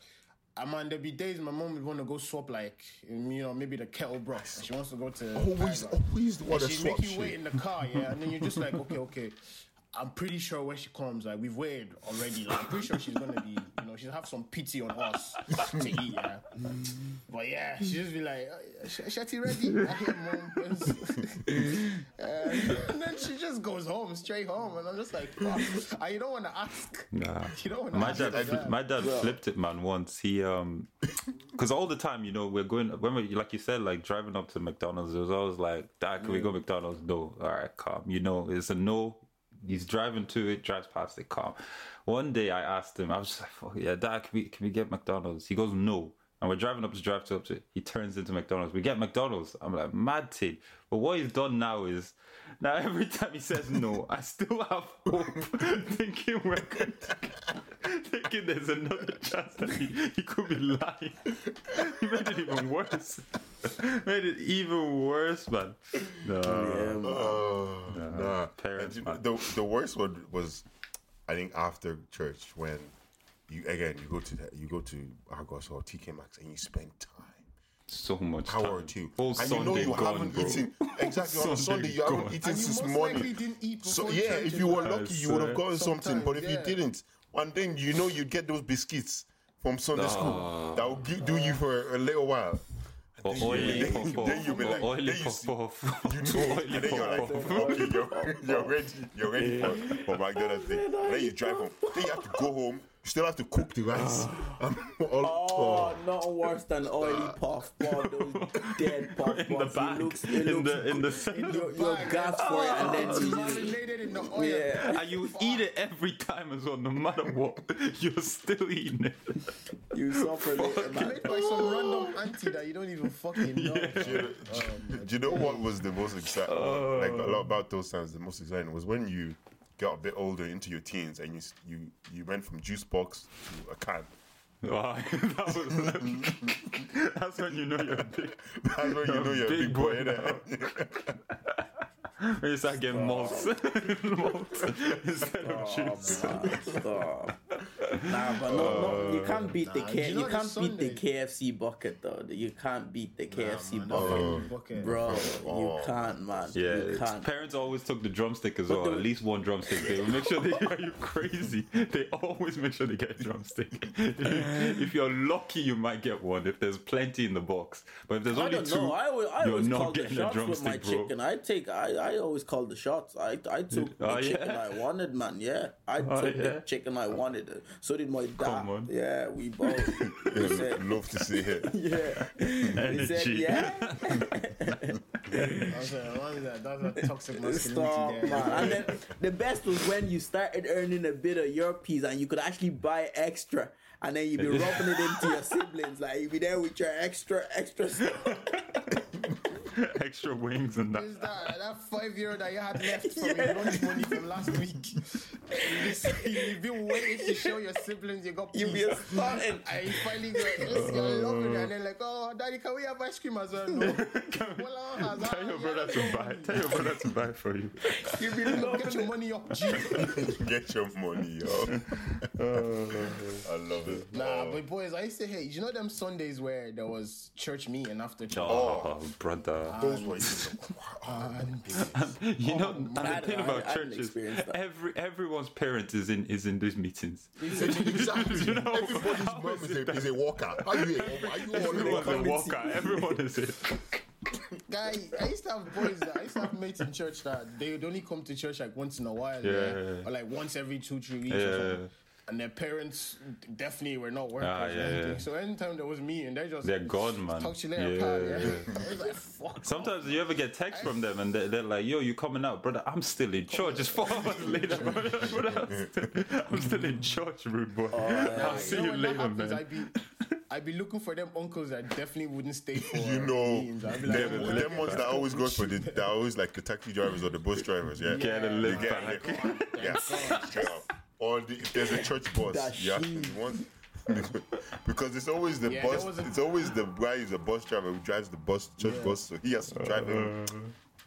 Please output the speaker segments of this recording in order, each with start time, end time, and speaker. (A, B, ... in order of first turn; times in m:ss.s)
0:00.6-0:09.4 A
0:05.4-0:07.4 B
0:09.9-0:16.5 A
0:17.3-0:28.8 A
0:27.1-0:30.9 C
0:28.0-0:28.8 B
0:29.0-0:29.4 D
0:31.5-1:07.0 C
1:06.4-1:07.5 D
1:07.0-1:10.6 B
1:07.9-1:09.2 C
1:11.3-1:12.9 B
1:13.5-1:17.5 B
1:17.9-1:22.4 C
1:18.5-1:23.3 B
1:19.6-1:20.0 A
1:22.4-1:25.1 A
1:23.8-1:46.1 B
1:24.7-1:25.6 C
1:25.7-1:26.8 A
1:29.9-1:31.0 C
1:31.2-1:31.6 D
1:33.2-1:38.0 C
1:33.4-1:34.5 A
1:33.5-1:34.6 D
1:36.7-1:38.8 D
1:39.3-1:42.5 D
1:43.9-1:44.6 D
1:45.2-1:53.8 D
1:47.0-1:47.4 B
1:47.8-1:51.8 C
1:51.2-1:55.7 A
1:52.4-1:53.7 C
1:54.3-1:55.0 D
1:54.8-1:59.6 C
1:59.9-2:01.4 D
2:00.2-2:02.5 C
2:00.8-2:05.7 A
2:03.4-2:04.3 C
2:04.0-2:14.1 B
2:05.3-2:05.6 D
2:06.5-2:07.6 C
2:14.6-2:20.5 C
2:15.5-2:16.6 B
2:17.8-2:21.2 B
2:21.3-2:21.6 C
2:22.2-2:26.8 C
2:22.9-2:23.5 D
2:25.4-2:27.4 D
2:27.5-2:29.5 C
2:28.0-2:37.3 D
2:28.5-2:29.1 B
2:28.7-2:31.0 A
2:33.3-2:35.2 A
2:33.9-2:36.7 B
2:36.6-2:51.1 C
2:38.7-2:39.1 D
2:48.3-3:00.8 D
2:53.7-2:54.7 C
2:56.0-2:56.6 C
2:58.4-2:58.9 C
3:00.1-3:01.8 B
3:01.7-3:05.7 D
3:02.7-3:04.3 C
3:05.3-3:05.7 C
3:05.7-3:08.9 A
3:07.4-3:18.6 D
3:08.4-3:08.8 B
3:14.4-3:15.3 C
3:18.2-3:18.8 C
3:19.7-3:21.2 C
3:20.9-3:37.0 A
3:23.0-3:24.2 D
3:25.8-3:26.2 D
3:28.5-3:29.8 D
3:30.4-3:30.7 D
3:30.7-3:31.7 C
3:33.8-3:38.5 C
3:38.0-3:39.1 D
3:38.5-3:40.3 A
3:39.8-3:40.2 C
3:40.0-3:42.3 B
3:41.8-3:44.0 C
3:43.4-3:44.6 B
3:44.1-3:48.9 A
3:48.3-3:49.8 C
3:48.4-3:49.0 B
3:49.7-3:53.6 A
3:49.8-3:52.0 B
3:51.9-4:04.0 C
3:53.0-3:54.6 D
3:57.4-3:58.6 A
3:57.5-4:02.5 B
4:01.6-4:03.0 D
4:04.7-4:21.0 A
4:09.4-4:10.1 C
4:11.3-4:11.9 C
4:14.4-4:15.2 C
4:16.6-4:18.8 C
4:19.6-4:29.7 C
4:23.5-4:25.5 A
4:24.8-4:25.9 B
4:27.9-4:28.8 D
4:28.3-4:29.9 A
4:30.5-4:36.1 A
4:32.9-4:50.4 B
4:34.1-4:35.1 C
4:38.0-4:40.8 A
4:38.2-4:40.5 C
4:41.9-4:43.4 D
4:45.6-4:46.4 A
4:48.8-4:49.2 A
4:49.7-4:50.7 C